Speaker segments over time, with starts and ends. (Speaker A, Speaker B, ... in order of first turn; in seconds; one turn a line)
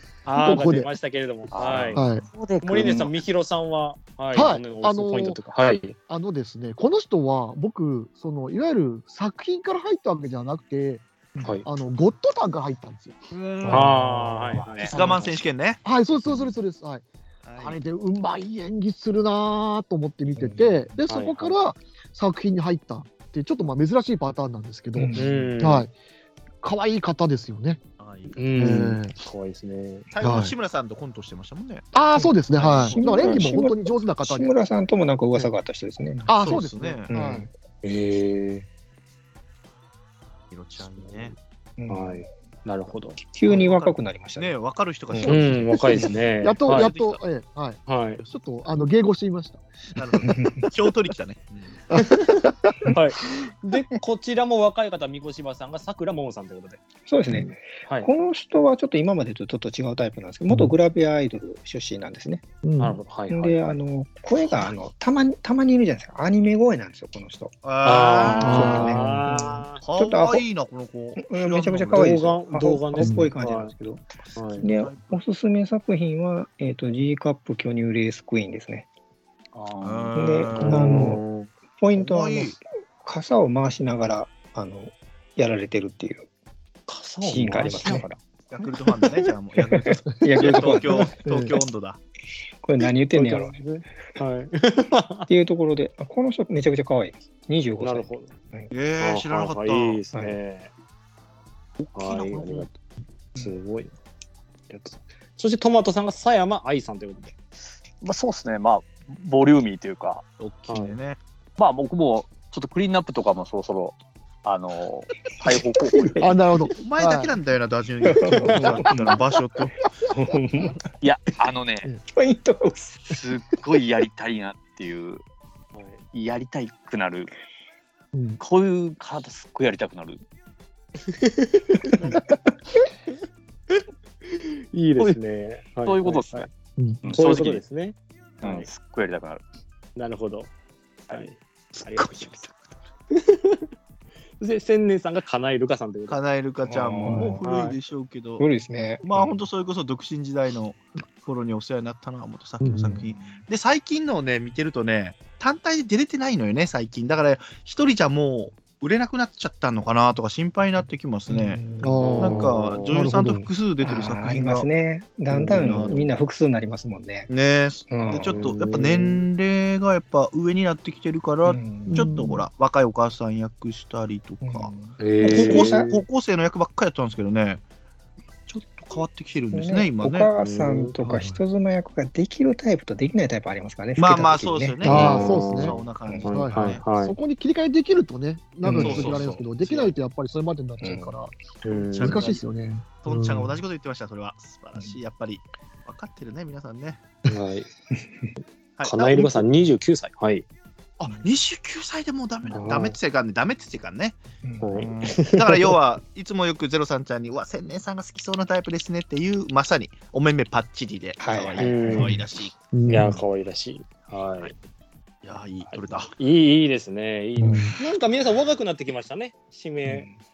Speaker A: 0.2-2.0
Speaker B: 0.3-0.9
Speaker C: 1.5-3.1
Speaker B: 1.9-2.2
Speaker A: 2.6-6.0
Speaker B: 4.3-5.4
Speaker B: 6.1-11.0
Speaker B: 11.6-13.2
Speaker D: 13.3-14.0
Speaker E: 13.6-15.3
Speaker A: 13.7-15.1
Speaker D: 14.8-15.8
Speaker B: 15.8-17.0
Speaker D: 17.4-17.8
Speaker B: 17.6-25.9
Speaker E: 20.3-20.9
Speaker A: 21.1-21.6
Speaker E: 24.9-25.6
Speaker A: 25.1-25.9
Speaker B: 26.6-27.8
Speaker D: 28.0-28.5
Speaker A: 28.3-30.1
Speaker B: 28.6-29.2
Speaker D: 30.1-31.8
Speaker B: 30.2-30.5
Speaker B: 31.9-34.5
Speaker E: 32.1-36.3
Speaker D: 32.5-33.0
Speaker B: 36.3-37.5
Speaker D: 36.4-37.1
Speaker E: 37.1-37.5
Speaker A: 37.8-38.6
Speaker D: 40.5-41.3
Speaker E: 41.8-42.2
Speaker A: 41.9-43.2
Speaker E: 43.2-44.5
Speaker D: 43.5-46.1
Speaker A: 45.2-46.9
Speaker B: 45.2-50.2
Speaker D: 46.7-47.2
Speaker A: 47.9-48.2
Speaker D: 50.0-51.8
Speaker E: 50.2-50.6
Speaker B: 51.9-52.9
Speaker A: 52.0-56.8
Speaker E: 57.1-62.4
Speaker A: 57.3-58.1
Speaker B: 62.6-63.0
Speaker A: 62.8-63.6
Speaker E: 63.3-67.5
Speaker D: 67.6-68.9
Speaker A: 67.8-69.8
Speaker B: 68.4-69.2
Speaker E: 68.5-70.4
Speaker D: 69.8-72.1
Speaker E: 71.2-74.0
Speaker A: 71.9-73.7
Speaker B: 73.0-73.3
Speaker D: 74.2-75.2
Speaker A: 74.3-74.7
Speaker E: 74.6-78.9
Speaker C: 79.5-80.1
Speaker D: 79.8-81.0
Speaker E: 80.1-81.2
Speaker A: 80.5-81.5
Speaker E: 81.8-86.3
Speaker D: 82.0-82.6
Speaker A: 86.9-88.2
Speaker E: 87.2-88.1
Speaker D: 88.5-92.0
Speaker E: 89.8-91.1
Speaker B: 90.0-90.3
Speaker A: 90.5-91.1
Speaker B: 91.2-91.6
Speaker E: 92.6-93.6
Speaker A: 93.1-95.3
Speaker E: 95.3-98.7
Speaker A: 97.8-98.3
Speaker D: 98.7-100.0
Speaker A: 99.0-100.7
Speaker E: 100.1-100.4
Speaker D: 101.8-102.7
Speaker A: 101.9-102.8
Speaker A: 103.4-103.9
Speaker A: 104.7-107.3
Speaker C: 108.0-110.2
Speaker D: 110.4-111.2
Speaker A: 110.7-111.0
Speaker C: 111.6-116.2
Speaker E: 115.5-116.4
Speaker B: 116.2-117.3
Speaker D: 116.8-119.8
Speaker E: 118.0-119.2
Speaker E: 120.1-120.8
Speaker C: 121.0-121.9
Speaker E: 122.1-123.2
Speaker C: 123.1-125.2
Speaker A: 125.7-126.0
Speaker C: 126.1-127.3
Speaker B: 128.1-128.4
Speaker C: 128.4-130.2
Speaker A: 131.1-132.2
Speaker A: 134.3-136.5
Speaker C: 135.8-136.5
Speaker B: 136.8-137.0
Speaker C: 137.0-137.6
Speaker A: 137.1-138.7
Speaker C: 138.4-139.4
Speaker A: 139.9-140.5
Speaker A: 141.1-142.4
Speaker D: 141.7-142.5
Speaker A: 143.1-143.6
Speaker A: 144.4-146.2
Speaker D: 146.1-148.4
Speaker E: 146.7-147.4
Speaker A: 147.4-147.8
Speaker E: 148.4-149.4
Speaker D: 149.0-161.7
Speaker B: 152.6-153.1
Speaker E: 161.3-162.0
Speaker B: 161.8-163.5
Speaker A: 162.0-163.0
Speaker D: 162.2-164.7
Speaker E: 163.2-167.3
Speaker A: 165.3-166.0
Speaker D: 165.5-165.9
Speaker D: 167.3-177.6
Speaker E: 167.9-168.3
Speaker A: 168.1-169.2
Speaker E: 171.4-172.1
Speaker B: 171.9-172.4
Speaker E: 174.4-175.9
Speaker A: 175.0-176.0
Speaker D: 178.5-180.3
Speaker E: 179.5-185.2
Speaker A: 180.4-180.9
Speaker B: 181.0-181.4
Speaker D: 184.0-186.8
Speaker B: 184.8-191.3
Speaker A: 184.8-187.1
Speaker E: 188.6-189.1
Speaker A: 188.8-189.2
Speaker D: 188.8-189.9
Speaker E: 190.8-191.1
Speaker A: 191.6-192.4
Speaker D: 191.9-192.4
Speaker B: 192.0-193.6
Speaker D: 193.0-197.0
Speaker A: 197.3-197.7
Speaker E: 198.0-198.3
Speaker D: 198.8-199.4
Speaker A: 198.8-200.4
Speaker D: 201.2-204.2
Speaker A: 202.5-202.9
Speaker E: 204.4-204.9
Speaker A: 204.6-205.7
Speaker D: 204.8-212.5
Speaker E: 211.2-212.2
Speaker A: 211.6-212.2
Speaker B: 212.7-213.2
Speaker A: 212.9-214.5
Speaker D: 215.2-216.1
Speaker A: 215.6-220.1
Speaker B: 217.4-217.8
Speaker E: 219.8-220.2